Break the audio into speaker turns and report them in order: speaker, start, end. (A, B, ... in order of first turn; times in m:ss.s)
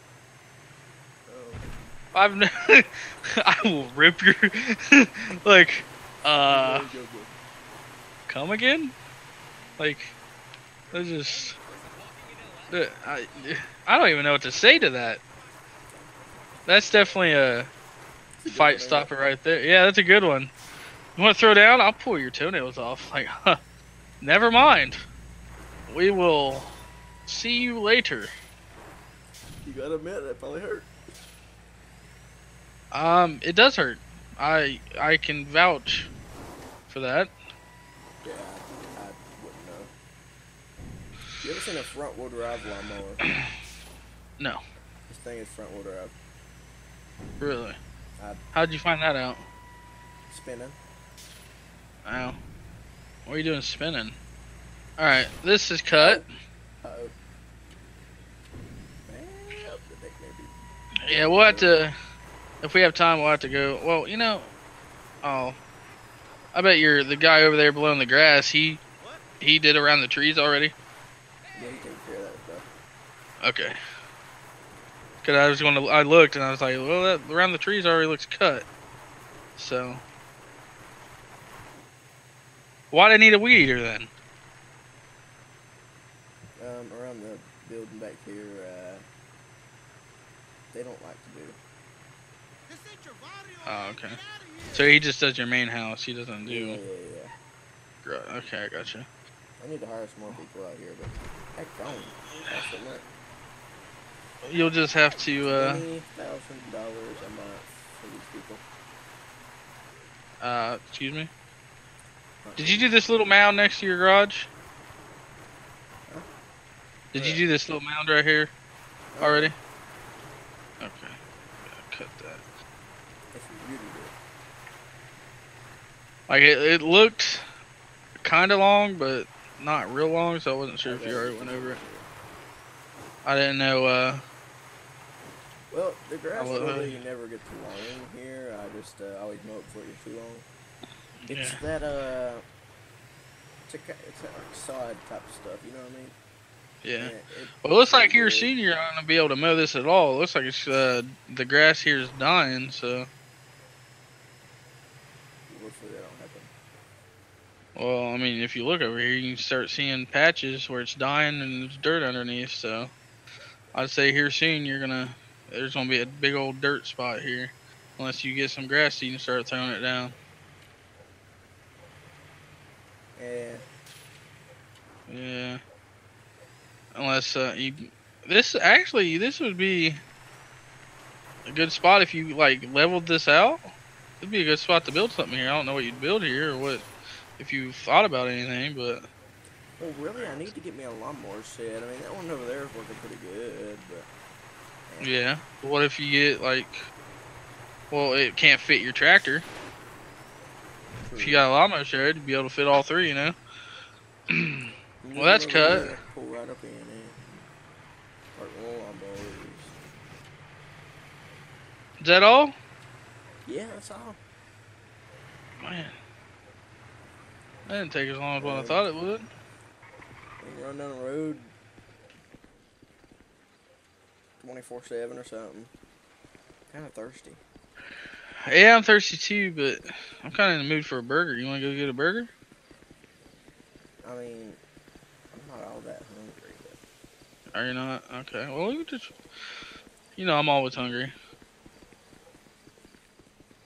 0:01.3-0:01.7 A
0:02.1-0:06.9 B
0:06.4-0:07.4 A
0:08.3-0:08.9 B
0:09.8-0:10.1 B
0:10.9-0:11.6 B
0:12.7-0:15.2 B
0:16.6-0:17.7 B
0:18.4-0:19.1 A
0:18.4-0:20.5 B
0:21.2-0:23.6 B
0:24.2-0:25.0 B
0:25.9-0:26.7 B
0:27.3-0:28.3 B
0:29.6-0:30.9 A
0:32.9-0:36.1 B
0:36.9-0:37.3 B
0:38.2-0:39.9 A
0:41.4-0:43.2 A
0:45.1-0:46.1 A
0:47.4-0:47.8 B
0:48.5-0:49.4 B
0:50.3-0:50.8 A
0:52.0-0:52.4 B
0:53.2-0:54.2 B
0:55.0-0:56.2 B
0:56.0-0:56.2 A
0:56.8-0:57.1 A
0:59.1-1:00.5 A
1:01.1-1:01.9 B
1:01.1-1:01.8 A
1:02.6-1:04.5 B
1:05.2-1:05.6 B
1:06.5-1:08.8 B
1:09.4-1:10.7 B
1:11.6-1:12.7 A
1:13.4-1:13.7 B
1:15.2-1:18.7 B
1:19.6-1:20.0 B
1:22.9-1:24.1 B
1:26.6-1:29.0 A
1:30.7-1:31.6 A
1:33.6-1:36.8 B
1:36.4-1:37.3 A
1:38.0-1:39.1 B
1:39.6-1:43.0 A
1:44.4-1:45.8 B
1:45.5-1:48.6 A
1:50.4-1:51.3 B
1:52.4-1:52.9 A
1:52.6-1:54.5 B
1:57.1-1:58.5 B
1:57.1-1:57.4 A
1:59.1-1:59.5 A
1:59.2-1:59.5 B
2:00.8-2:01.2 B
2:01.7-2:02.4 B
2:03.3-2:04.2 A
2:06.3-2:07.4 B
2:08.2-2:11.8 B
2:10.8-2:12.1 A
2:13.2-2:14.2 B
2:15.7-2:20.5 A
2:16.4-2:17.0 B
2:21.2-2:21.6 B
2:21.3-2:22.4 A
2:23.7-2:26.2 A
2:26.8-2:33.1 B
2:27.0-2:28.5 A
2:35.5-2:36.5 A
2:37.7-2:42.9 B
2:43.7-2:50.2 B
2:53.2-2:53.6 A
2:55.1-2:55.6 B
2:56.9-3:00.0 B
3:01.4-3:03.6 B
3:04.2-3:06.8 B
3:07.4-3:09.0 B
3:09.8-3:14.1 A
3:14.9-3:15.2 A
3:15.0-3:16.8 B
3:17.9-3:19.4 B
3:21.0-3:21.5 A
3:21.2-3:23.4 B
3:24.3-3:25.9 B
3:25.0-3:27.5 A
3:28.4-3:29.8 A
3:32.0-3:32.5 B
3:33.4-3:34.2 A
3:35.6-3:35.9 B
3:37.6-3:39.2 B
3:38.4-3:38.8 A
3:40.4-3:41.5 A
3:44.4-3:45.7 A
3:46.7-3:47.4 A
3:48.4-3:52.3 B
3:54.0-3:54.6 A
3:55.3-3:56.8 A
3:57.5-3:59.1 B
4:00.2-4:01.1 B